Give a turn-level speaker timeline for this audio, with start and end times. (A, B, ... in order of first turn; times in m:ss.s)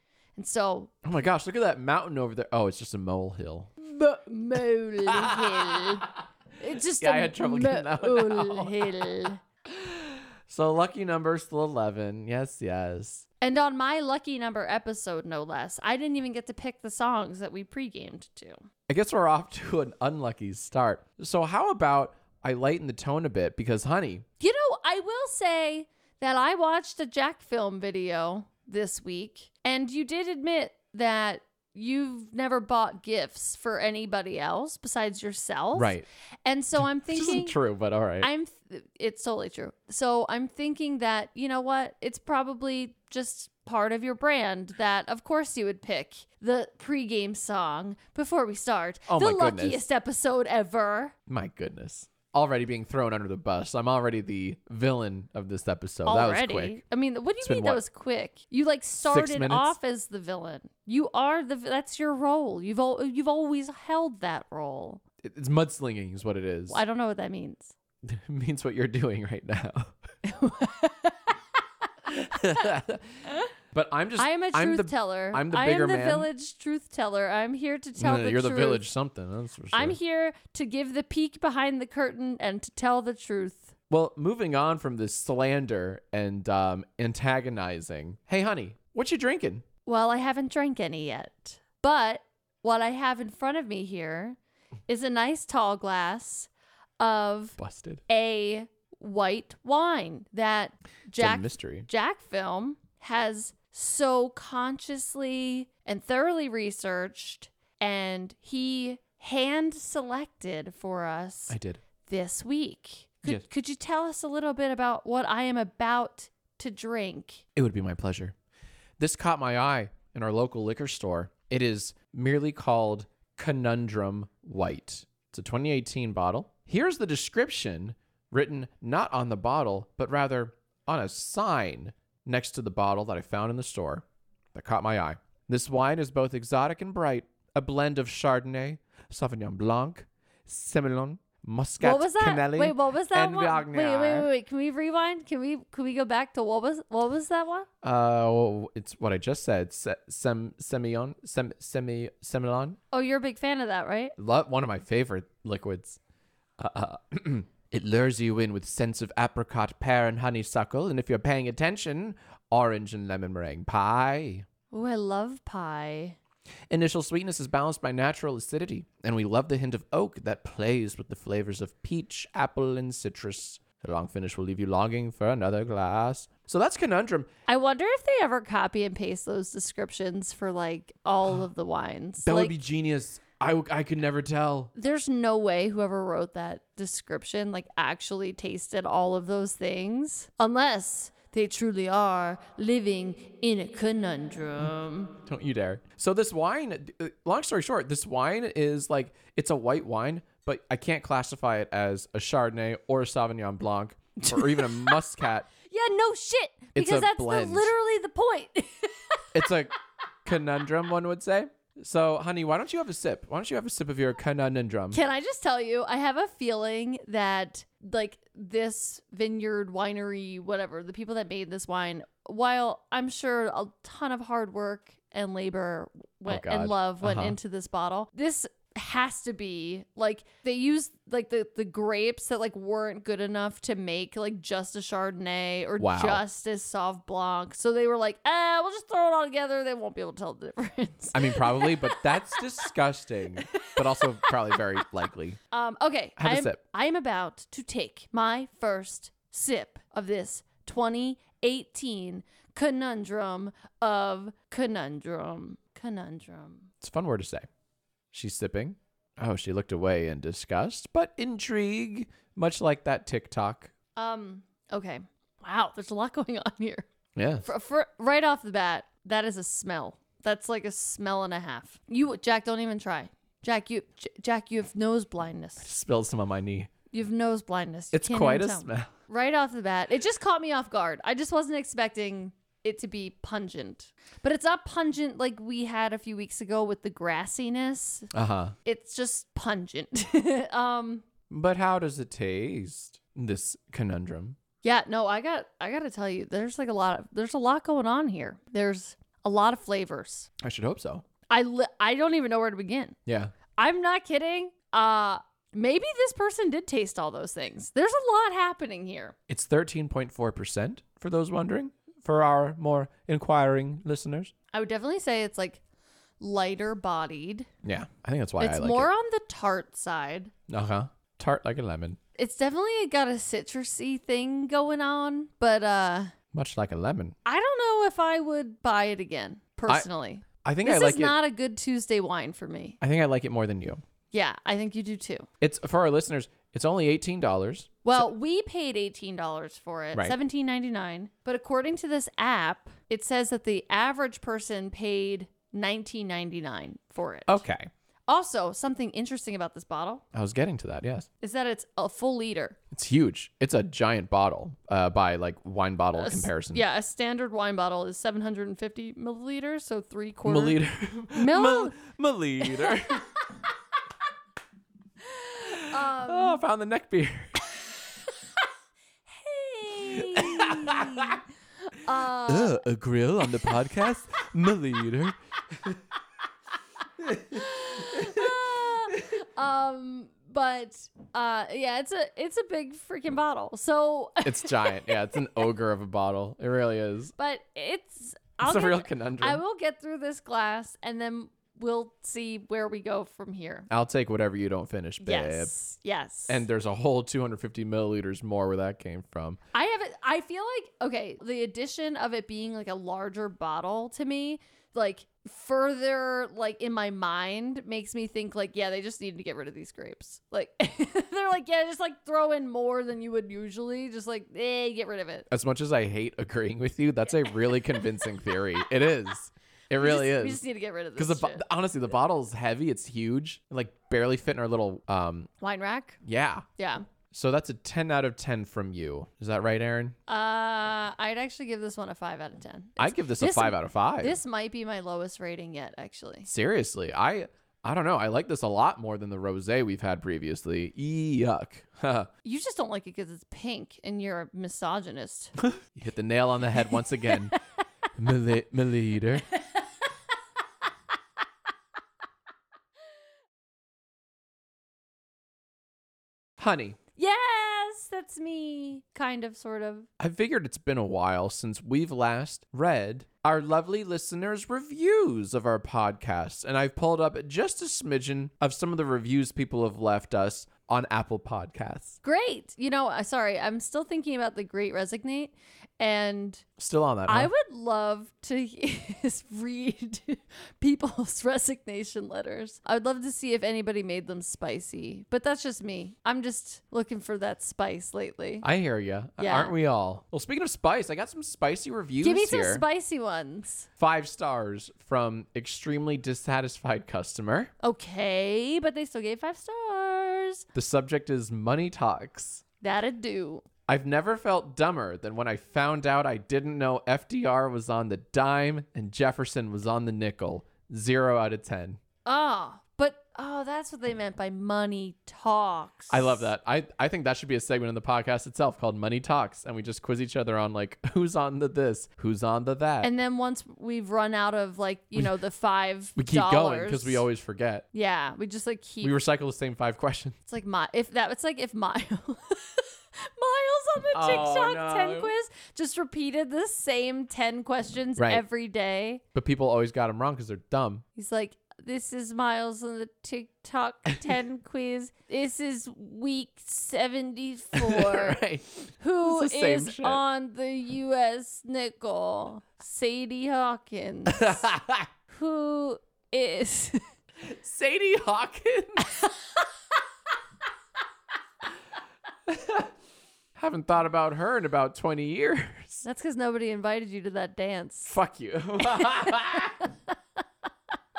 0:00.4-0:00.9 A
0:01.0-0:03.7 B
0:03.8-0:09.4 A
0:05.0-0:06.1 B
0:07.0-0:13.2 B
0:13.4-0:18.6 A
0:18.9-0:24.2 B
0:24.4-0:37.6 A
0:35.7-0:36.0 B
0:37.0-0:38.3 B
0:38.2-0:51.1 A
0:49.1-0:49.8 B
0:51.3-0:56.8 B
0:56.0-1:05.0 A
0:57.4-0:57.8 B
0:59.0-0:59.8 B
1:05.2-1:06.8 B
1:06.7-1:07.7 A
1:08.0-1:09.9 B
1:10.2-1:11.4 A
1:12.1-1:13.2 B
1:13.7-1:16.3 B
1:14.2-1:18.8 A
1:18.0-1:20.0 B
1:19.7-1:23.7 A
1:23.9-1:29.6 B
1:29.8-1:34.4 A
1:34.9-1:37.6 A
1:37.6-1:38.0 B
1:38.1-1:51.5 A
1:41.2-1:41.9 B
1:51.5-1:51.8 B
1:52.1-1:57.4 A
1:57.6-1:58.3 B
1:59.0-2:24.3 B
2:21.8-2:27.7 A
2:27.8-2:32.8 B
2:32.9-2:34.1 A
2:34.2-2:36.0 B
2:36.6-2:44.5 B
2:44.7-2:46.2 A
2:46.7-2:57.3 B
2:57.5-3:02.5 A
3:02.2-3:04.7 B
3:04.7-3:15.1 A
3:15.2-3:25.5 B
3:24.2-3:29.5 A
3:26.7-3:27.7 B
3:29.3-3:35.0 B
3:34.9-4:02.7 A
3:46.3-3:47.4 B
3:55.8-3:56.2 B
4:01.1-4:05.4 B
4:03.4-4:04.6 A
4:05.5-4:16.7 A
4:06.2-4:06.6 B
4:16.8-4:17.5 B
4:18.1-4:23.7 B
4:24.0-4:26.9 A
4:27.1-4:27.5 B
4:27.4-4:35.7 A
4:35.6-4:36.7 B
4:36.9-4:48.1 A
4:37.9-4:38.9 B
4:48.1-4:48.5 B
4:48.6-4:51.0 A
4:51.3-4:54.4 B
4:54.6-5:00.3 A
5:00.4-5:01.0 B
5:01.3-5:03.0 A
5:03.0-5:03.3 B
5:03.6-5:09.1 A
5:09.3-5:14.3 B
5:14.5-5:15.6 A
5:16.2-5:17.5 A
5:17.6-5:18.9 B
5:18.4-5:20.3 A
5:20.5-5:22.0 B
5:22.2-5:26.1 A
5:26.3-5:27.1 B
5:27.2-5:32.8 A
5:30.4-5:31.2 B
5:32.8-5:33.8 B
5:34.1-5:35.3 A
5:35.4-5:38.1 B
5:37.8-5:47.4 A
5:47.3-5:47.7 B
5:48.1-5:50.0 A
5:50.1-5:51.1 B
5:51.2-5:52.6 A
5:52.7-5:56.6 B
5:56.0-6:00.6 A
6:00.2-6:03.1 B
6:01.1-6:01.8 A
6:02.4-6:02.8 A
6:05.4-6:07.4 B
6:05.5-6:06.4 A
6:09.1-6:12.6 A
6:10.0-6:11.2 B
6:12.3-6:15.8 B
6:17.0-6:18.3 B
6:17.2-6:25.2 A
6:24.2-6:27.1 B
6:27.2-6:33.7 A
6:28.4-6:29.4 B
6:33.7-6:35.5 B
6:35.0-6:36.4 A
6:36.3-6:39.4 B
6:39.5-6:55.3 A
6:55.3-7:00.4 B
6:57.2-6:57.8 A
6:59.8-7:01.4 A
7:01.0-7:05.3 B
7:05.4-7:06.0 A
7:06.0-7:06.4 B
7:06.6-7:06.9 A
7:07.1-7:09.9 B
7:10.1-7:16.3 A
7:12.8-7:14.2 B
7:16.2-7:22.1 B
7:22.2-7:25.3 A
7:25.4-7:27.4 B
7:26.7-7:27.4 A
7:28.0-7:29.3 B
7:29.3-7:29.6 A
7:36.4-7:36.8 B
7:37.0-7:39.9 A
7:40.0-7:52.0 B
7:52.0-7:56.4 A
7:56.6-7:57.3 B
7:57.1-8:08.4 A
8:08.4-8:12.6 B
8:09.2-8:09.5 A
8:12.0-8:13.7 A
8:13.8-8:17.5 B
8:17.6-8:20.4 A
8:20.5-8:22.4 B
8:22.6-8:23.4 A
8:23.7-8:31.8 B
8:32.0-8:36.2 A
8:35.9-8:42.9 B
8:42.8-8:47.0 A
8:46.0-8:47.6 B
8:47.7-8:48.9 A
8:48.8-8:50.2 B
8:50.2-8:59.0 A
8:53.9-8:55.1 B
8:58.0-8:58.2 B
8:59.1-9:00.8 B
9:01.0-9:08.2 A
9:07.5-9:10.0 B
9:08.8-9:14.5 A
9:14.1-9:14.9 B
9:15.1-9:16.8 A
9:17.2-9:18.9 B
9:22.3-9:22.7 B
9:23.4-9:25.8 B
9:25.8-9:28.0 A
9:27.9-9:29.6 B
9:28.6-9:29.7 A